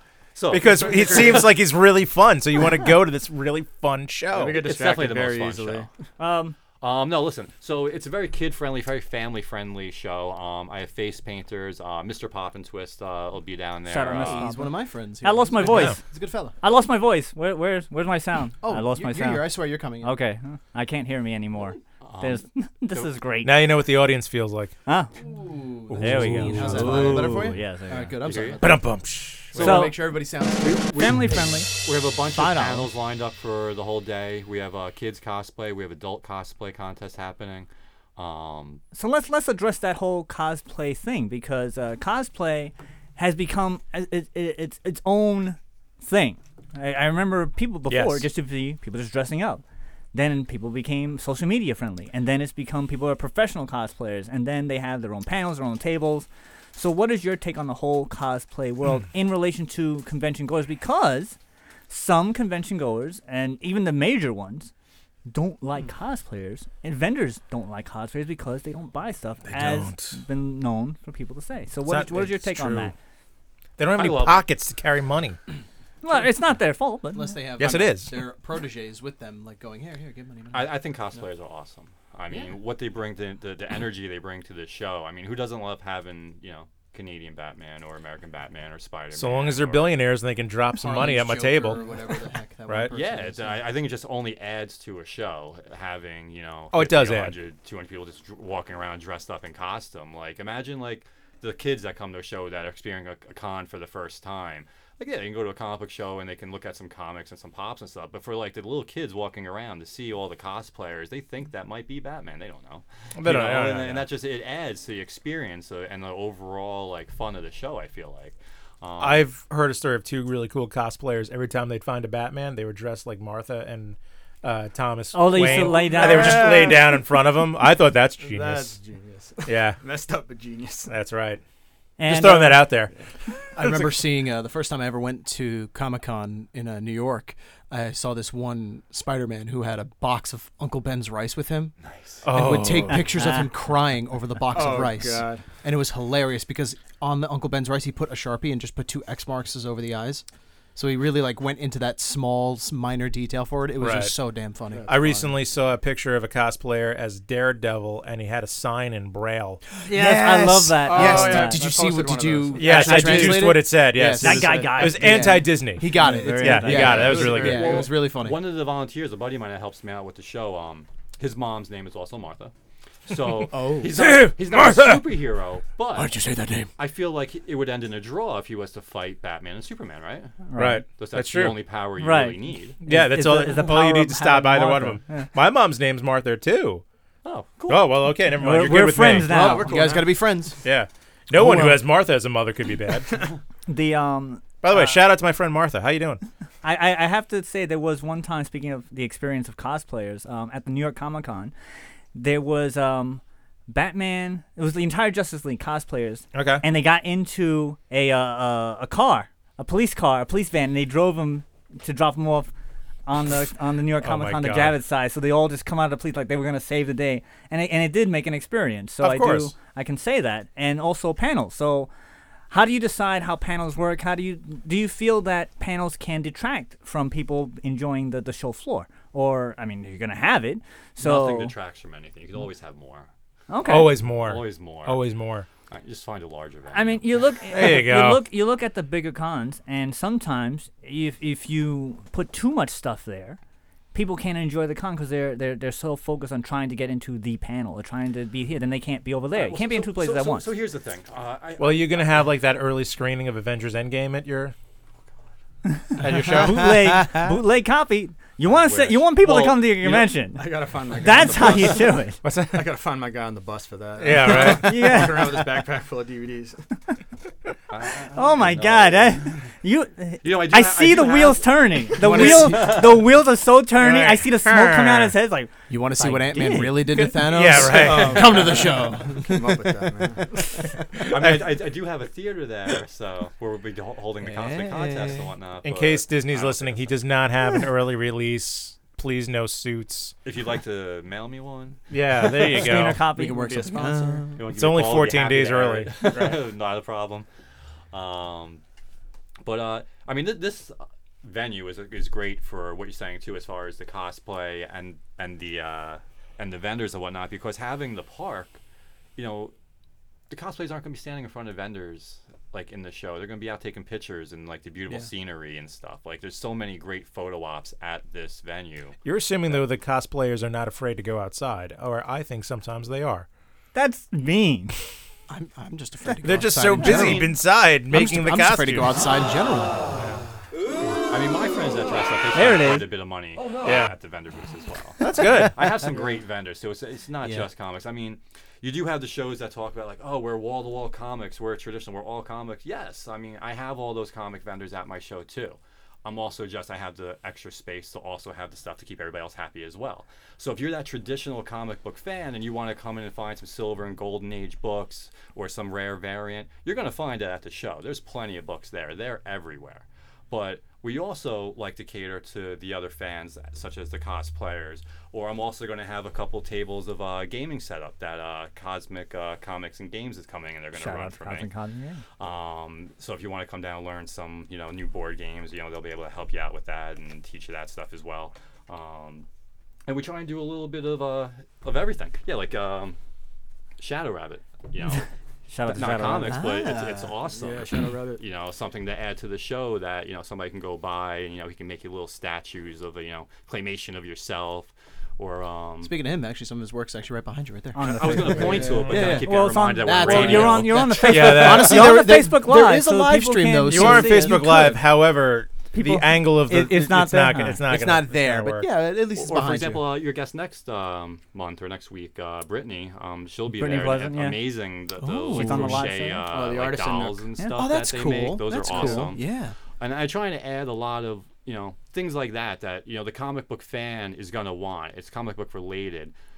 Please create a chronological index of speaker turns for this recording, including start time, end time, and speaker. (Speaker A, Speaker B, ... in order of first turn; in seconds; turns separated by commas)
Speaker A: 0.3-1.4, Speaker B: 0.5-4.6, Speaker C: 0.7-1.4, Speaker C: 4.3-5.9, Speaker A: 4.5-5.9, Speaker D: 6.2-6.5, Speaker A: 6.8-14.5, Speaker D: 13.9-16.1, Speaker E: 14.1-16.6, Speaker B: 15.6-16.0, Speaker D: 16.6-23.6, Speaker E: 18.6-20.2, Speaker A: 22.0-23.1, Speaker B: 23.4-24.7, Speaker D: 24.9-25.1, Speaker E: 25.2-29.0, Speaker B: 25.9-27.6, Speaker D: 25.9-28.2, Speaker A: 28.2-28.7, Speaker B: 28.6-29.6, Speaker E: 29.5-30.8, Speaker A: 29.6-30.0, Speaker D: 29.6-30.1, Speaker A: 30.6-38.8, Speaker D: 30.9-31.7, Speaker D: 32.3-32.9, Speaker D: 38.9-49.6, Speaker B: 47.9-48.3, Speaker D: 50.1-61.4, Speaker D: 61.9-64.7, Speaker D: 65.2-72.9, Speaker B: 69.5-70.2, Speaker B: 71.9-72.9, Speaker B: 73.8-75.4, Speaker A: 73.9-74.5, Speaker D: 76.0-77.3, Speaker E: 77.1-80.8, Speaker B: 77.6-78.3, Speaker A: 80.5-90.0, Speaker B: 89.1-91.8, Speaker E: 90.7-93.7, Speaker A: 92.9-119.2, Speaker B: 96.7-97.3, Speaker B: 113.2-114.1, Speaker B: 119.0-128.8, Speaker D: 125.1-126.7, Speaker C: 125.3-127.0, Speaker C: 128.2-130.9, Speaker B: 129.4-129.8, Speaker B: 130.9-131.4, Speaker D: 132.0-132.7, Speaker B: 132.0-132.9, Speaker E: 133.5-150.2, Speaker A: 141.8-142.2, Speaker B: 142.2-143.1, Speaker D: 142.7-143.4, Speaker C: 144.5-145.5, Speaker E: 150.8-155.3, Speaker B: 153.8-154.1, Speaker C: 154.7-155.1, Speaker B: 154.9-159.6, Speaker E: 159.8-168.5, Speaker D: 159.9-161.6, Speaker C: 160.8-163.4, Speaker B: 162.6-167.8, Speaker D: 163.1-163.4, Speaker D: 164.2-167.2, Speaker C: 166.7-167.9, Speaker A: 167.3-172.5, Speaker A: 173.1-176.2, Speaker E: 173.5-173.9, Speaker B: 173.8-175.1, Speaker E: 175.9-176.7, Speaker A: 176.8-180.4, Speaker D: 180.4-180.8, Speaker B: 180.5-181.6, Speaker A: 181.0-182.8, Speaker D: 182.0-185.3, Speaker B: 182.8-186.8, Speaker A: 187.2-188.0, Speaker B: 187.7-189.6, Speaker D: 188.3-189.9, Speaker E: 189.1-190.6, Speaker C: 189.5-190.1, Speaker B: 190.6-193.2, Speaker E: 191.3-191.8, Speaker D: 193.7-195.0, Speaker B: 194.6-196.2, Speaker D: 196.6-201.5, Speaker D: 202.1-212.5, Speaker B: 206.3-206.6, Speaker D: 213.1-221.9, Speaker B: 214.0-214.8, Speaker B: 219.0-219.5, Speaker D: 222.5-231.5, Speaker A: 231.0-233.1, Speaker D: 233.5-234.0, Speaker B: 233.6-235.4, Speaker A: 234.1-235.0, Speaker A: 235.7-237.0, Speaker D: 236.7-243.4, Speaker B: 237.5-238.2, Speaker D: 243.9-250.5, Speaker A: 249.3-252.2, Speaker B: 251.6-254.5, Speaker D: 255.7-262.2, Speaker B: 256.0-256.9, Speaker C: 259.2-266.6, Speaker B: 262.2-262.7, Speaker B: 264.0-265.0, Speaker D: 264.4-265.4, Speaker A: 267.7-269.4, Speaker D: 268.1-277.2, Speaker A: 270.2-273.0, Speaker E: 272.0-272.9, Speaker B: 273.8-275.1, Speaker E: 275.7-280.1, Speaker B: 276.9-278.5, Speaker C: 277.7-280.5, Speaker A: 281.1-287.0, Speaker E: 284.2-285.3, Speaker B: 285.6-290.1, Speaker A: 290.2-291.8, Speaker B: 291.9-293.0, Speaker D: 292.5-293.5, Speaker E: 293.0-294.4, Speaker C: 293.2-294.3, Speaker A: 294.4-297.3, Speaker B: 294.5-296.0, Speaker A: 297.9-298.6, Speaker A: 299.4-308.6, Speaker A: 309.2-309.5, Speaker A: 310.3-319.6, Speaker B: 319.0-323.3, Speaker D: 323.7-324.9, Speaker E: 325.3-329.9, Speaker B: 326.2-329.0, Speaker A: 326.9-327.2, Speaker A: 331.1-371.5, Speaker D: 332.3-332.9, Speaker B: 333.6-333.9, Speaker B: 335.0-335.7, Speaker E: 335.0-335.8, Speaker E: 337.2-337.5, Speaker D: 370.7-372.0, Speaker A: 372.2-379.3, Speaker A: 379.9-383.0, Speaker A: 383.8-385.1, Speaker D: 385.5-386.4, Speaker A: 385.7-396.0, Speaker E: 386.2-387.1, Speaker C: 387.3-388.2, Speaker E: 395.8-404.8, Speaker D: 397.7-404.7, Speaker A: 397.8-401.6, Speaker B: 401.0-402.1, Speaker B: 403.7-408.7, Speaker D: 405.7-407.6, Speaker E: 407.6-409.9, Speaker A: 409.1-419.2, Speaker D: 413.5-414.4, Speaker E: 415.0-415.9, Speaker D: 415.3-416.2, Speaker C: 416.2-417.3, Speaker E: 417.5-419.6, Speaker A: 419.8-426.1